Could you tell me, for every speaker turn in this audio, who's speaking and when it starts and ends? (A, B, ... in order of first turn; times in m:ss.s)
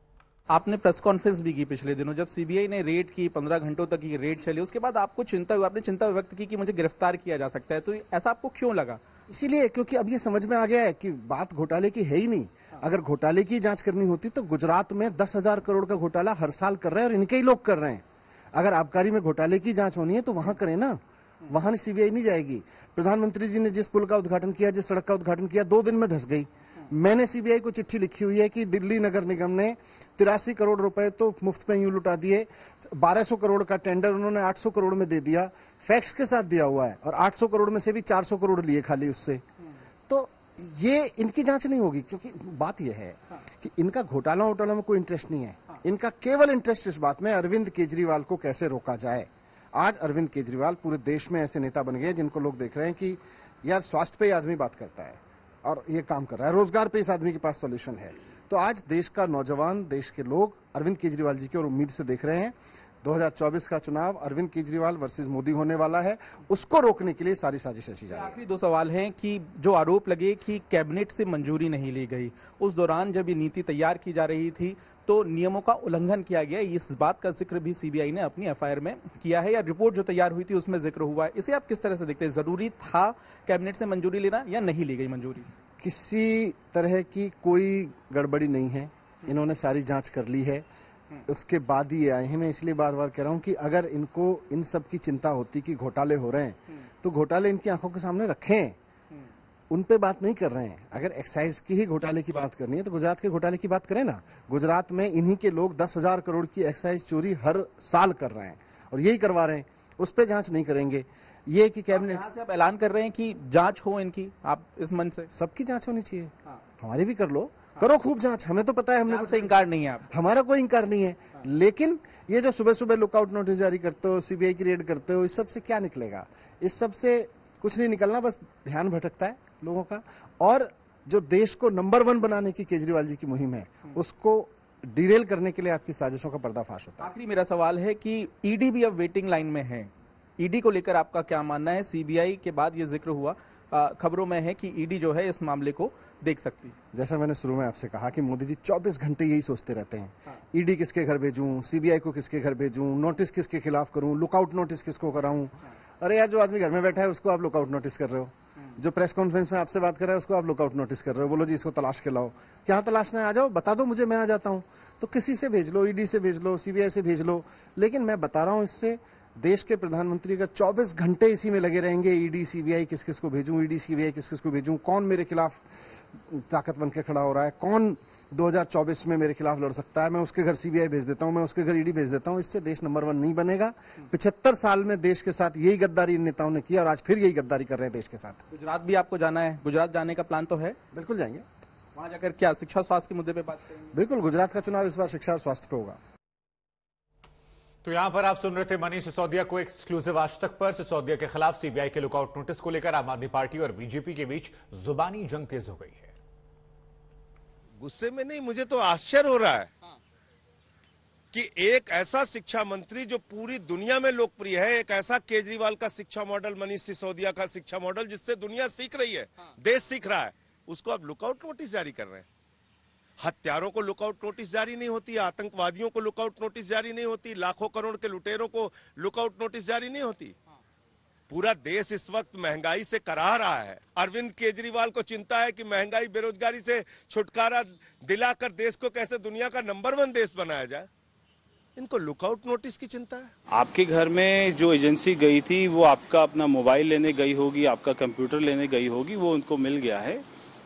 0:00.5-0:09.0 A
0:09.3-0:39.4 B
0:40.1-1:08.4 B
1:08.1-1:25.5 A
1:25.8-1:30.6 B
1:31.2-1:38.8 B
1:39.7-1:52.2 B
1:51.9-1:55.3 A
1:55.3-1:59.6 B
1:59.0-2:00.1 A
2:00.1-2:17.1 B
2:17.0-2:26.8 A
2:26.9-3:08.4 B
3:08.5-3:10.8 A
3:10.9-3:11.4 B
3:11.9-3:13.9 A
3:13.9-3:16.0 B
3:17.8-3:26.1 C
3:27.8-3:29.7 D
3:31.3-3:42.2 D
3:43.2-3:50.3 D
3:51.3-4:00.9 D
4:01.8-4:03.3 D
4:03.5-4:10.2 E